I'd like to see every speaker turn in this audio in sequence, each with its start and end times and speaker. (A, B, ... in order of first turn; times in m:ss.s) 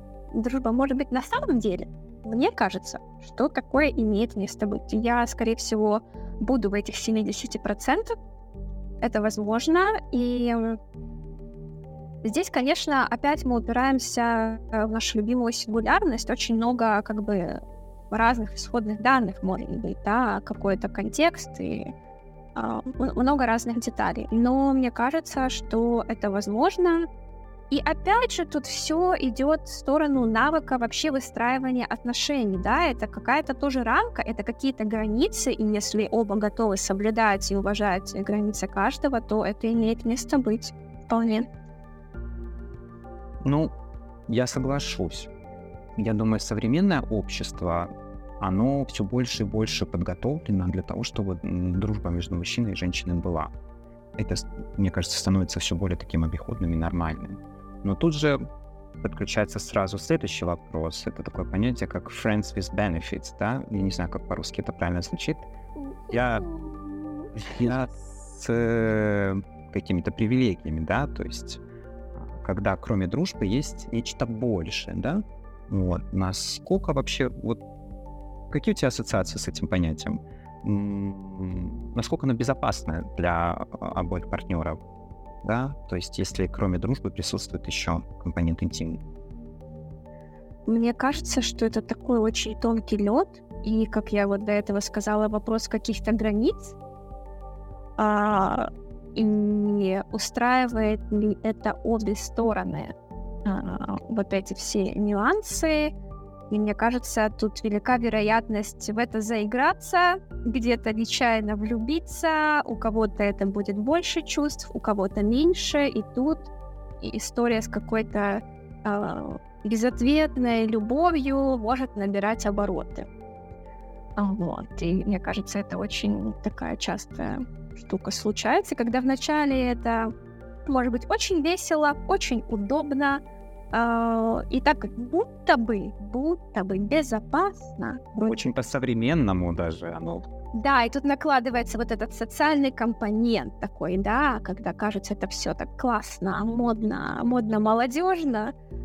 0:00.3-0:08.2 A
0:09.0-0:10.8 A
0:12.2-0:17.6 A
0:18.1-0:21.9 A
0:22.5-0:27.1 A
0:27.7-0:41.5 A
0:43.4-0:43.7 B
0:44.3-0:45.3 B
0:46.0-0:47.9 B
0:48.4-0:53.5 B
0:54.2-0:58.4 B
0:59.0-1:05.5 B
1:05.8-1:07.3 A
1:06.1-1:06.5 B
1:07.3-1:11.6 B
1:12.2-1:17.6 B
1:18.5-1:24.8 B
1:25.4-1:29.0 B
1:30.6-1:36.8 A
1:38.0-1:42.9 A
1:43.4-1:45.9 A
1:46.5-2:03.1 A
2:04.2-2:10.1 A
2:10.6-2:18.4 A
2:18.3-2:20.3 B
2:20.5-2:28.5 A